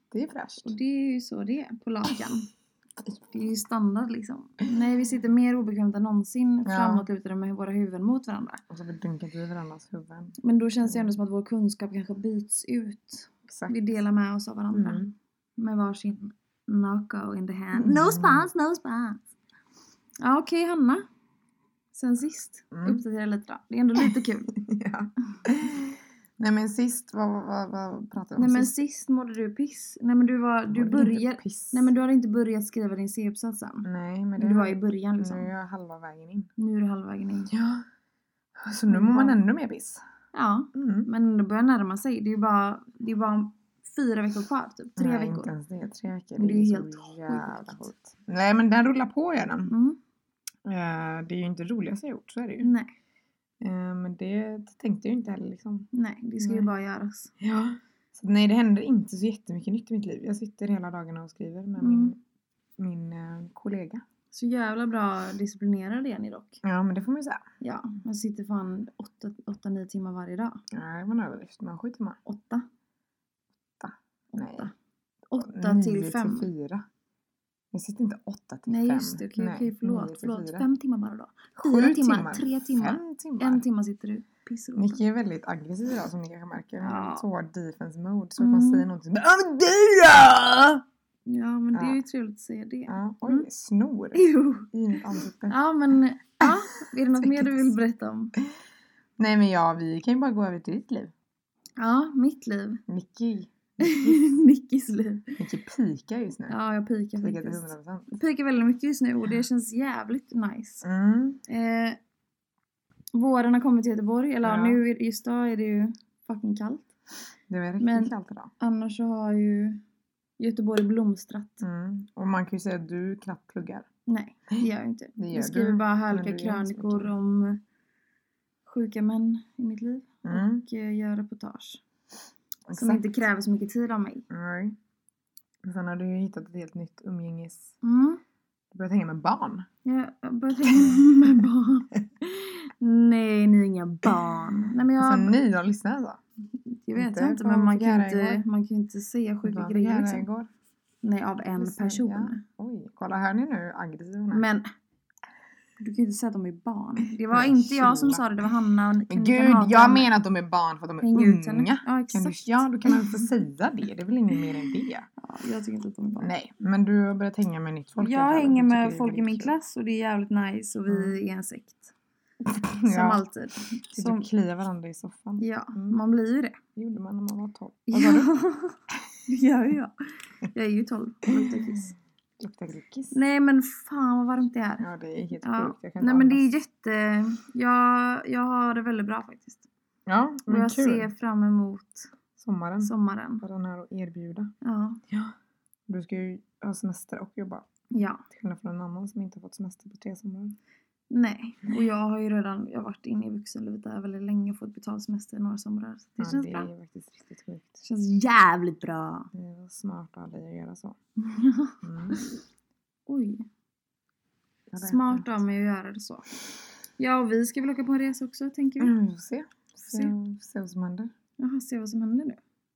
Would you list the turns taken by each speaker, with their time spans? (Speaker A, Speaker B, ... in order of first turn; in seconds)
Speaker A: 0.1-0.7, 6.6-7.0, 8.7-11.1, 13.5-13.8, 14.7-15.1, 17.7-18.5, 22.7-23.0, 24.0-28.7, 30.7-31.9, 33.8-36.5, 37.5-37.8, 38.6-40.0, 40.7-41.1, 45.0-49.7, 50.6-52.7, 53.6-55.9, 56.4-56.7, 57.4-62.2, 62.8-64.0, 66.6-67.4, 70.7-72.2, 73.8-74.7, 75.4-76.8, 77.7-80.7, 81.6-83.6, 84.8-90.8, 91.7-92.0, 92.9-95.5, 97.2-97.7, 99.2-101.1, 102.9-104.2, 105.4-106.5, 107.2-108.1, 110.8-111.4, 114.4-114.8, 117.5-118.5, 121.6-123.9, 125.2-127.1, 130.2-130.6, 132.7-133.1, 134.3-134.8, 135.6-137.7, 138.7-139.7, 140.6-141.4, 145.0-146.2, 146.9-148.4, 149.4-150.5, 151.6-154.4, 157.3-158.3, 159.1-165.1, 166.2-169.5, 170.9-171.2, 172.4-173.2, 173.9-176.0, 176.8-178.3, 181.4-181.9, 182.4-183.1, 184.8-186.4, 190.1-191.1, 192.3-194.5, 195.1-195.3, 195.9-197.7, 198.3-200.6, 206.2-207.8, 209.3-211.0, 211.8-212.2, 214.7-215.4, 218.8-221.1
Speaker B: 0.6-2.5, 3.3-8.6, 10.4-15.1, 15.6-19.2, 20.2-21.0, 21.9-24.5, 28.4-33.9, 34.4-35.5, 36.6-37.5, 38.9-39.4, 40.3-45.5, 46.4-47.9, 49.7-50.0, 52.6-52.9, 55.9-57.3, 61.8-62.1, 64.3-66.6, 67.6-70.6, 72.2-72.7, 74.3-74.7, 75.3-76.5, 78.7-85.0, 86.8-87.2, 88.4-88.9, 91.3-93.5, 94.1-94.7, 95.5-98.3, 101.8-102.8, 103.8-105.4, 106.5-110.8, 111.5-112.0, 113.1-116.9, 117.8-119.8, 120.4-121.6, 124.1-127.6, 128.7-131.8, 132.7-134.3, 137.8-138.2, 139.8-145.3, 146.5-150.3, 151.0-152.4, 154.3-154.7, 155.8-160.1, 161.0-163.3, 165.2-166.3, 168.0-171.9, 172.8-174.2, 175.4-176.6, 177.9-179.9, 180.4-181.9, 183.1-184.9, 185.4-189.7, 190.5-192.1, 192.8-193.4, 194.6-195.0, 197.9-198.2, 201.1-206.7, 207.8-209.3, 211.2-212.3, 213.1-213.5, 214.8-216.3, 217.0-218.9, 221.4-222.4